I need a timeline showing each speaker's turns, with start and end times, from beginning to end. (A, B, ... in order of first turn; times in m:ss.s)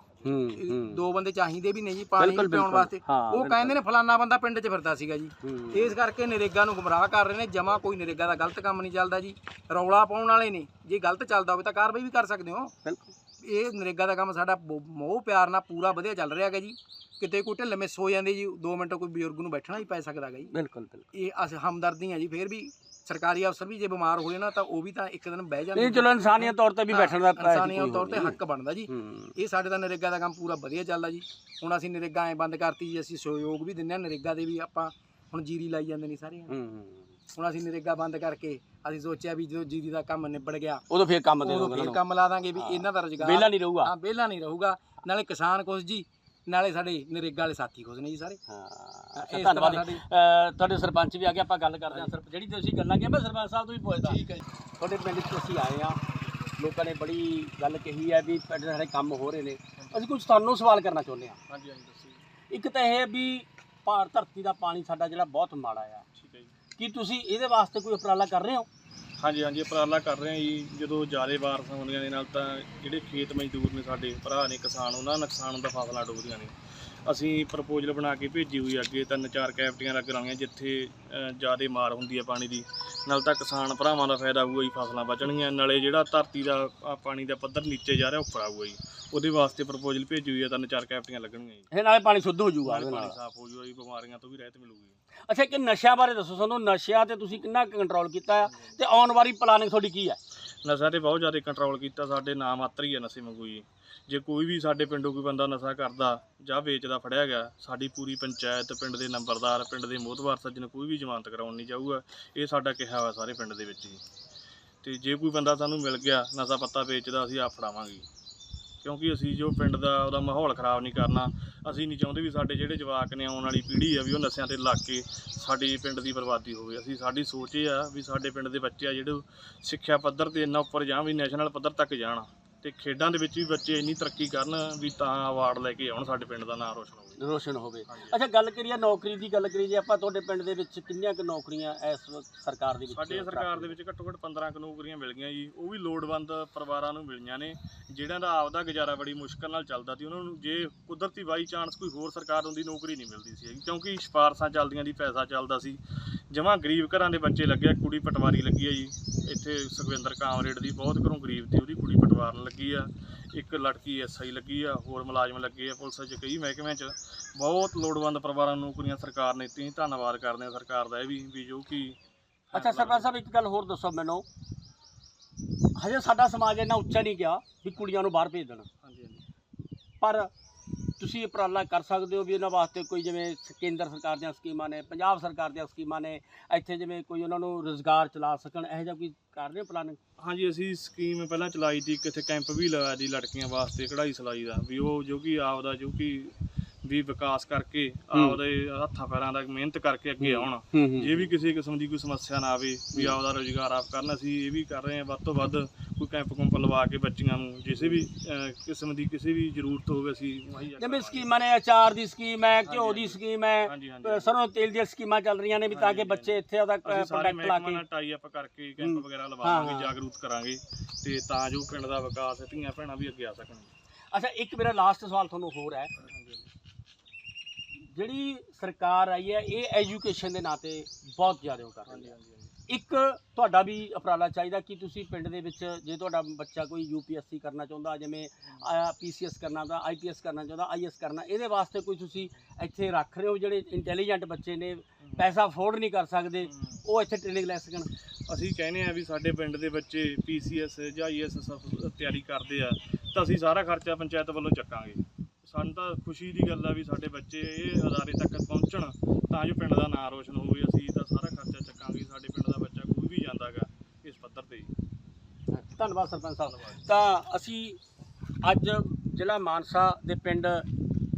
0:00.2-0:01.0 A
0:00.5-0:12.7 B
0:02.2-0:03.7 A
0:05.4-0:06.0 A
0:12.8-0:13.1 A
0:13.4-0:20.5 B
0:20.5-0:21.0 A
0:21.1-0:36.5 B
0:25.7-0:28.4 A
0:28.9-0:29.3 A
0:36.5-0:37.2 A
0:37.3-0:40.8 B
0:40.9-0:42.0 A
0:41.4-0:48.4 B
0:42.6-0:43.9 A
0:48.5-0:54.2 A
0:49.2-0:50.0 B
0:54.0-0:54.4 B
0:54.8-0:56.0 A
0:56.6-1:01.4 A
1:01.5-1:02.2 C
1:02.5-1:06.0 A
1:06.1-1:06.5 C
1:06.8-1:08.7 A
1:09.2-1:16.5 C
1:17.0-1:31.7 C
1:31.7-1:33.2 A
1:32.6-1:35.0 C
1:35.3-1:40.2 A
1:40.6-1:54.0 C
1:54.8-1:58.0 C
1:58.8-2:17.2 C
2:17.2-2:23.7 A
2:17.9-2:18.2 C
2:22.9-2:35.8 C
2:36.3-2:52.0 C
2:52.5-2:53.1 C
2:52.5-2:54.2 A
2:55.8-2:58.7 A
2:58.8-2:59.2 C
3:00.0-3:00.3 A
3:01.0-3:10.0 A
3:10.2-3:31.3 C
3:18.1-3:18.4 A
3:20.2-3:21.2 A
3:30.8-3:37.8 A
3:32.6-3:34.3 C
3:35.7-3:43.7 C
3:38.8-3:39.9 A
3:44.1-3:45.9 A
3:46.0-3:46.4 C
3:47.9-3:52.1 A
3:51.9-3:52.5 C
3:52.7-4:07.9 A
4:06.4-4:06.8 C
4:08.3-4:24.7 C
4:25.5-4:27.8 A
4:26.5-4:26.8 C
4:28.4-4:30.6 A